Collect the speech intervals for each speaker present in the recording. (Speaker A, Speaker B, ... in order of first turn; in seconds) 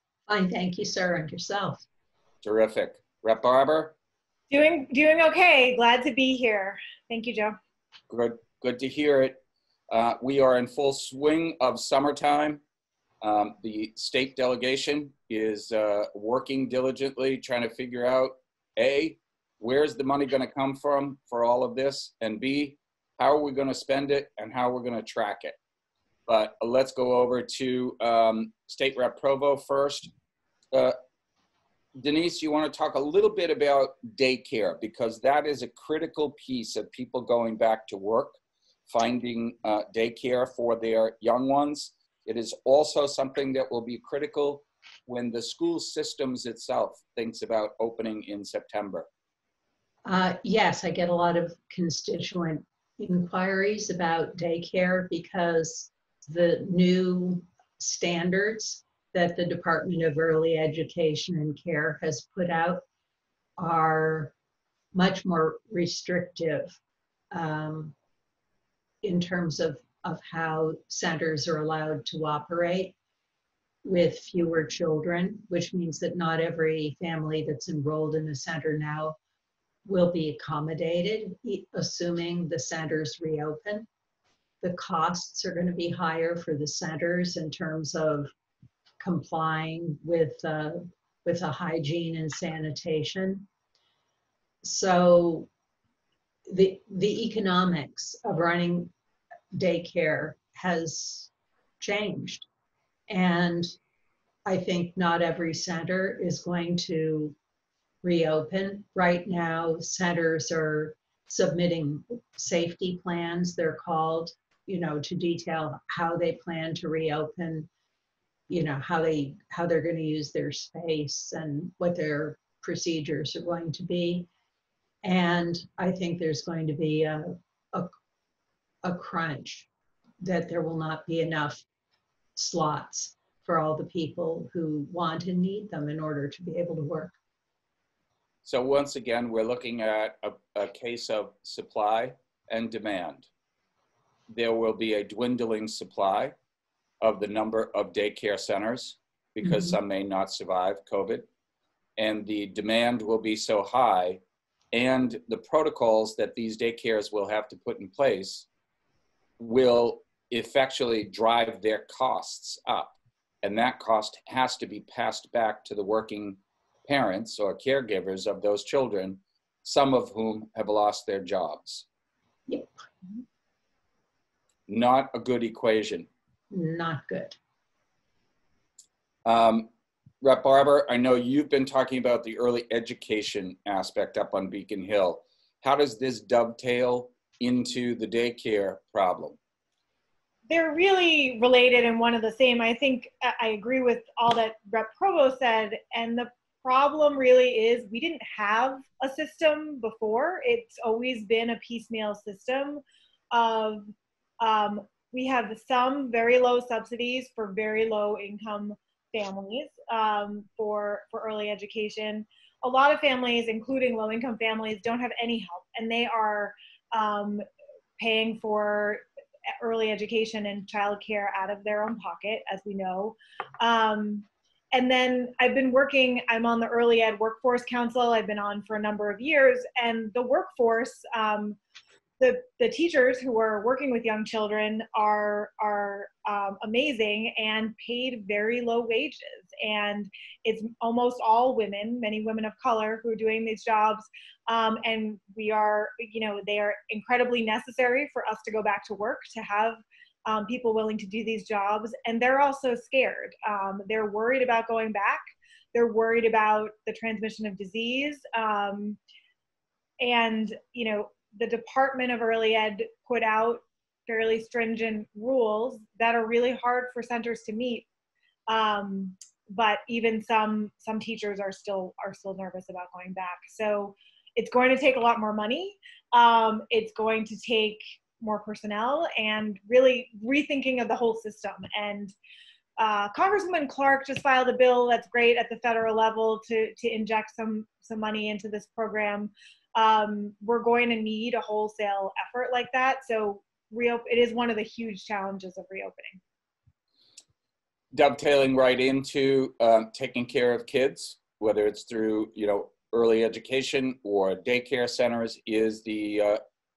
Speaker A: 0.3-1.8, 50.0-62.8, 63.6-64.3, 64.9-66.8, 67.3-67.9, 69.0-72.9, 73.8-79.2, 79.8-83.9, 84.6-88.3, 89.0-93.5, 94.6-95.5, 96.5-98.9, 99.5-102.5, 103.1-103.7, 104.5-107.3, 108.0-117.7, 118.5-124.3, 125.0-127.9, 128.8-129.7, 130.2-131.6, 132.3-137.1, 149.4-149.8, 172.5-172.8, 176.5-177.4
Speaker B: 2.4-3.9, 8.1-12.6, 13.2-25.6, 26.3-30.1, 31.9-38.4, 38.9-49.1, 138.4-143.3, 144.3-146.3, 147.0-151.2, 152.0-154.2, 154.7-158.5, 159.4-171.8, 174.7-176.1, 179.2-179.7, 180.2-189.4, 297.9-306.4
Speaker C: 4.5-7.6, 190.5-217.4, 218.0-219.0, 219.6-231.6, 232.2-255.2, 255.7-259.0, 260.0-267.9, 268.5-282.1, 282.8-296.2